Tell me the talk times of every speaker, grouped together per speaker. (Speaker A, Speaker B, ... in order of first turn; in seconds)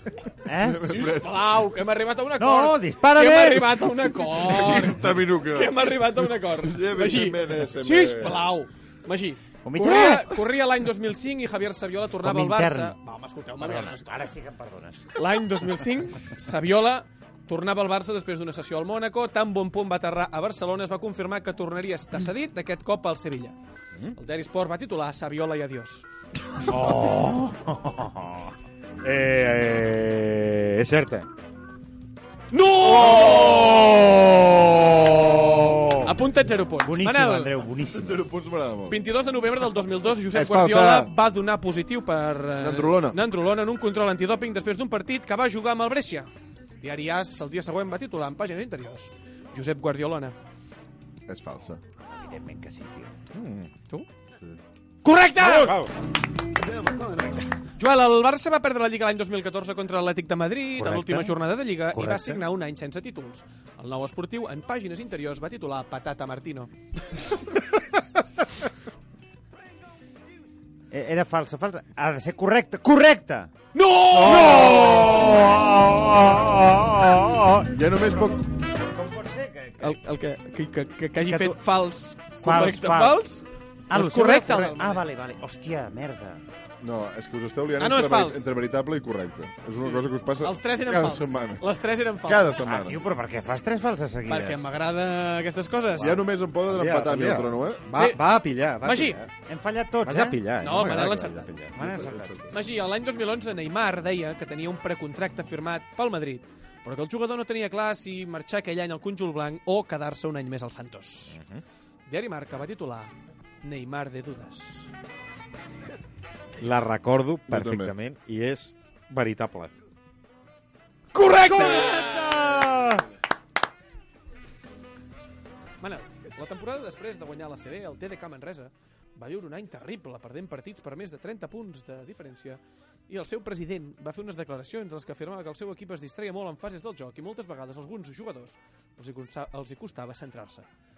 Speaker A: 0.5-0.9, 2.4-3.9, 9.6-10.3, 12.2-12.9, 13.6-15.1, 26.7-28.5, 35.1-36.1, 36.8-38.2, 52.1-53.1, 60.8-61.4, 61.9-62.4, 70.9-73.5, 74.2-80.0, 81.2-81.6, 82.4-83.2, 83.9-86.4, 92.6-94.6, 99.5-100.4, 101.8-102.4, 121.5-123.0
Speaker B: 0.6-1.5, 4.3-8.5, 32.9-33.8, 37.9-39.0, 40.3-41.1, 42.6-43.2, 51.3-51.8, 77.7-78.4, 86.8-91.7, 92.2-93.0, 96.0-97.8, 101.8-102.5, 117.5-117.9, 122.0-122.3
Speaker C: 0.8-14.2, 15.1-23.6, 24.1-26.1, 32.5-34.7, 36.0-37.5, 38.9-46.3, 46.8-50.3, 55.0-55.8, 57.8-66.7, 73.7-75.5, 79.8-85.0, 87.8-88.5, 89.8-92.6, 94.3-96.2, 98.8-99.2, 100.6-101.5, 102.5-111.4, 112.1-114.9, 121.1-122.2, 125.8-140.7
Speaker D: 29.0-31.3, 53.3-53.7, 55.4-55.9, 74.1-75.2, 96.7-99.3, 100.0-102.1, 111.3-111.6, 116.6-119.7